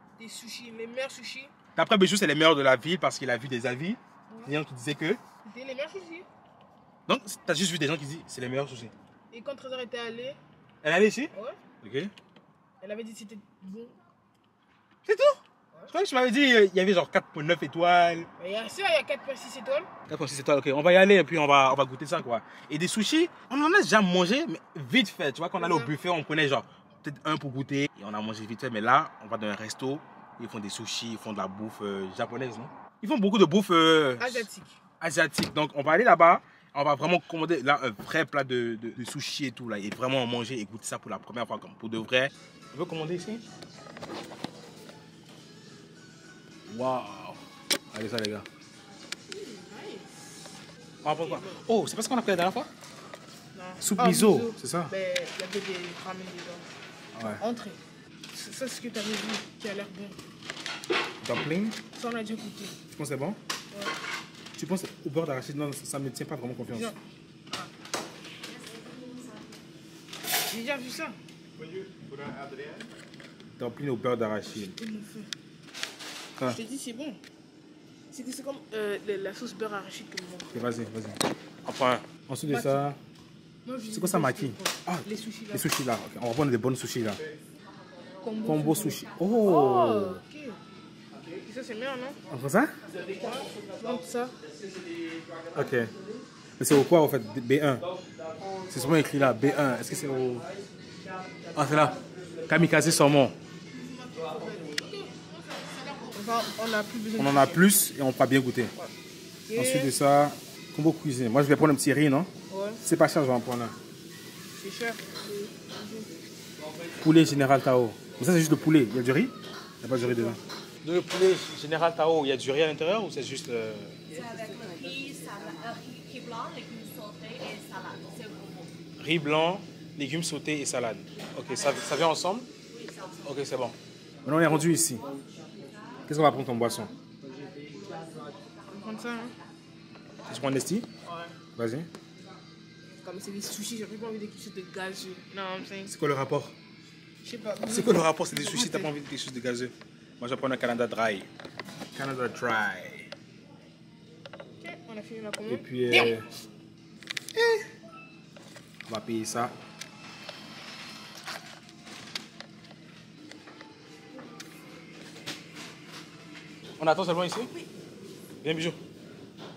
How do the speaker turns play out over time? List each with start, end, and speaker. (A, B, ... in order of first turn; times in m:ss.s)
0:00.2-0:01.5 A
0:01.7-0:05.2 B
0:05.4-0:06.3 A
0:07.1-0:08.9 B
0:09.3-0:10.4 A
0:10.8-0:11.3 B
0:11.3-0:11.6 A
0:11.8-0:12.1 B
0:12.8-0:13.9 A
0:15.0-0:18.3 B
0:18.4-0:19.9 A
0:20.1-0:34.5 B
0:25.6-0:25.9 A
0:34.2-0:34.8 A
0:35.0-0:43.4 B
0:46.7-0:47.4 B
0:47.9-0:48.4 B
0:49.3-0:50.1 A
0:51.0-0:52.7 B
0:53.5-0:56.7 A
0:53.8-0:54.9 B
0:57.2-0:57.4 B
0:57.4-0:57.8 A
0:58.3-1:00.2 A
1:01.2-1:01.8 B
1:01.9-1:02.8 A
1:02.9-1:03.4 B
1:04.6-1:06.9 B
1:10.4-1:11.2 A
1:13.6-1:14.8 B
1:14.5-1:15.3 A
1:16.4-1:17.2 A
1:18.1-1:20.5 A
1:20.5-1:23.0 B
1:22.4-1:22.9 A
1:23.6-1:25.7 A
1:23.9-1:27.2 B
1:28.2-1:30.6 A
1:28.5-1:30.2 B
1:31.3-1:32.2 A
1:32.3-1:32.8 B
1:32.9-1:34.4 A
1:35.5-1:35.9 B
1:36.6-1:37.8 B
1:38.7-1:40.4 B
1:41.5-1:43.4 B
1:43.7-1:47.6 A
1:47.2-1:48.7 B
1:49.5-1:49.9 A
1:49.5-1:52.3 B
1:52.5-1:52.8 A
1:52.8-1:53.8 B
1:54.6-1:56.2 A
1:57.0-2:04.0 B
2:00.0-2:00.4 A
2:04.2-2:05.0 A
2:04.9-2:08.2 C
2:09.0-2:12.5 B
2:13.2-2:15.0 B
2:16.1-2:16.9 B
2:18.7-2:19.4 A
2:20.3-2:20.9 B
2:21.0-2:21.4 A
2:21.6-2:21.9 B
2:23.0-2:25.9 A
2:25.9-2:26.5 B
2:27.2-2:28.9 A
2:27.7-2:31.3 B
2:31.9-2:33.1 B
2:34.6-2:36.2 A
2:35.5-2:36.2 B
2:37.4-2:37.6 B
2:38.9-2:39.5 B
2:46.8-2:47.5 B
2:48.4-2:48.8 B